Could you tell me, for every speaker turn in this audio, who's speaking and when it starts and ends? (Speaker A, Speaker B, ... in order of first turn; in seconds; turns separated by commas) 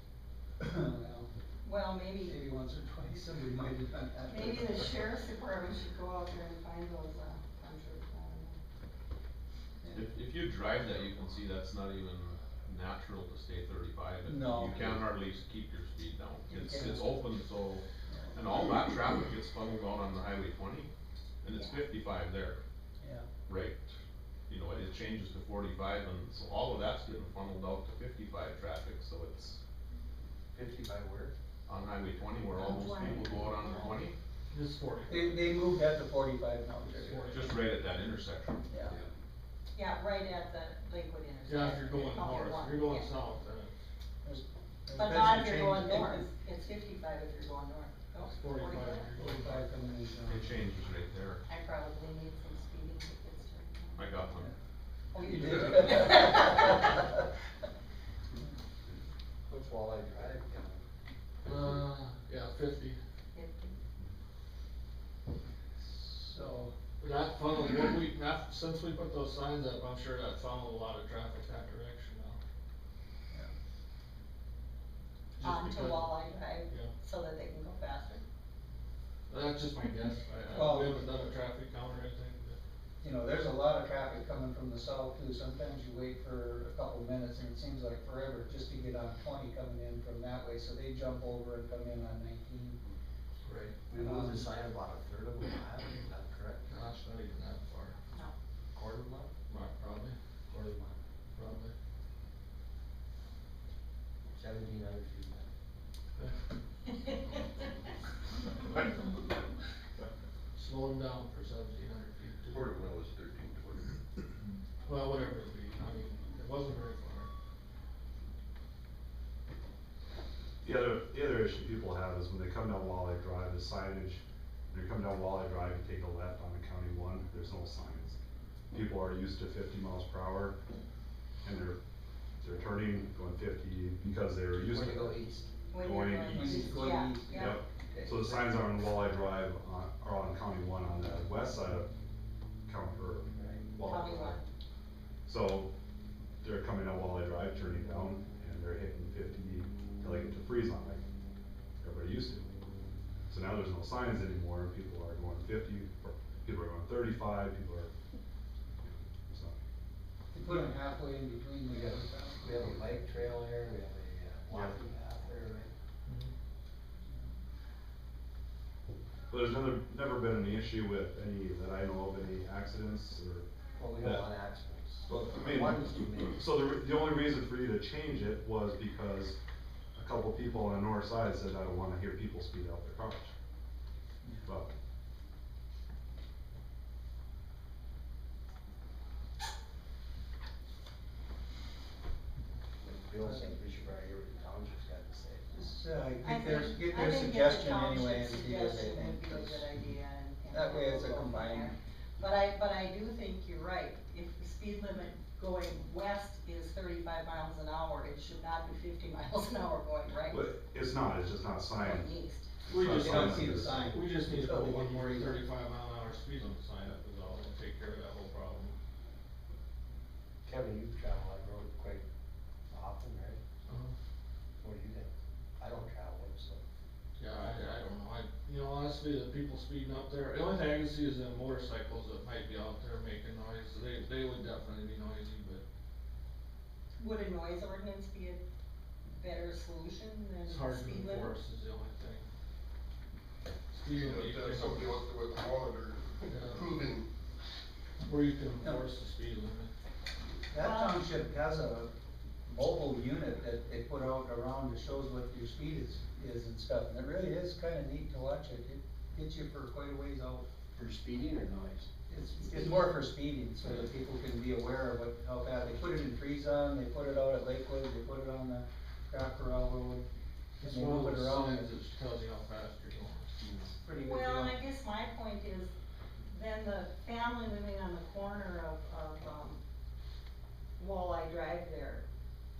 Speaker A: 0.6-1.3, Speaker B: 1.6-2.4, Speaker A: 2.2-5.0, Speaker B: 4.3-8.6, Speaker C: 9.9-20.9, Speaker A: 14.2-15.0, Speaker A: 16.5-17.2, Speaker A: 18.1-18.4, Speaker C: 21.4-22.6, Speaker A: 23.0-23.2, Speaker C: 23.5-23.9, Speaker C: 24.5-29.6, Speaker D: 30.5-31.3, Speaker C: 31.6-34.1, Speaker B: 32.5-34.0, Speaker E: 34.5-35.4, Speaker A: 35.1-37.3, Speaker E: 36.9-37.5, Speaker C: 37.3-38.6, Speaker A: 38.7-38.9, Speaker B: 39.7-43.1, Speaker E: 41.5-43.7, Speaker A: 44.2-46.2, Speaker B: 44.9-49.1, Speaker E: 48.2-49.6, Speaker A: 49.2-50.5, Speaker C: 50.3-51.4, Speaker B: 51.5-54.1, Speaker C: 54.0-54.5, Speaker B: 55.1-56.9, Speaker A: 55.2-57.1, Speaker D: 59.5-60.8, Speaker E: 61.4-63.0, Speaker B: 63.3-63.8, Speaker A: 65.8-66.7, Speaker E: 67.0-72.4, Speaker E: 75.4-76.9, Speaker B: 75.4-78.2, Speaker E: 79.3-82.6, Speaker A: 80.5-81.0, Speaker A: 83.0-92.8, Speaker D: 93.5-96.6, Speaker A: 93.9-94.5, Speaker E: 96.7-98.0, Speaker D: 98.7-99.3, Speaker E: 99.5-100.2, Speaker D: 100.5-101.0, Speaker E: 101.3-101.7, Speaker D: 104.3-105.5, Speaker E: 110.5-112.6, Speaker C: 112.5-113.9, Speaker E: 114.8-117.3, Speaker F: 120.6-128.2, Speaker F: 128.7-130.5, Speaker F: 131.4-131.8, Speaker F: 132.4-136.6, Speaker D: 134.6-135.5, Speaker B: 135.7-137.6, Speaker A: 136.3-137.6, Speaker F: 137.3-141.9, Speaker D: 137.4-138.6, Speaker F: 142.7-144.4, Speaker D: 143.3-143.6, Speaker B: 143.8-144.4, Speaker F: 145.2-145.7, Speaker F: 146.4-151.0, Speaker F: 151.8-152.4, Speaker F: 153.3-157.9, Speaker F: 158.8-159.6, Speaker A: 160.3-162.8, Speaker D: 161.7-165.7, Speaker F: 164.5-164.8, Speaker E: 166.1-166.3, Speaker F: 169.3-173.5, Speaker D: 173.8-176.5, Speaker F: 174.0-174.2, Speaker F: 175.1-179.4, Speaker F: 179.9-183.3, Speaker F: 184.4-184.7, Speaker D: 192.8-195.5, Speaker A: 193.2-193.5, Speaker A: 195.5-199.7, Speaker B: 196.2-210.4, Speaker A: 200.5-201.7, Speaker F: 210.3-212.1, Speaker B: 211.8-212.5, Speaker F: 212.7-213.9, Speaker E: 212.7-218.7, Speaker A: 212.8-215.4, Speaker D: 220.4-222.0, Speaker D: 222.7-223.4, Speaker E: 223.7-223.9, Speaker D: 224.6-226.6, Speaker E: 227.2-235.6, Speaker B: 237.0-238.4, Speaker B: 239.1-241.3, Speaker E: 240.4-242.2, Speaker E: 243.7-245.0, Speaker G: 243.9-247.1, Speaker E: 246.3-246.8, Speaker E: 248.0-249.7, Speaker A: 250.5-251.9, Speaker B: 250.6-251.0, Speaker A: 252.4-260.4, Speaker D: 260.7-261.9, Speaker A: 262.1-270.1, Speaker E: 270.6-273.3, Speaker A: 270.6-271.7, Speaker D: 273.4-273.7, Speaker A: 273.8-274.6, Speaker B: 274.0-275.7, Speaker B: 276.3-279.6, Speaker B: 280.8-282.0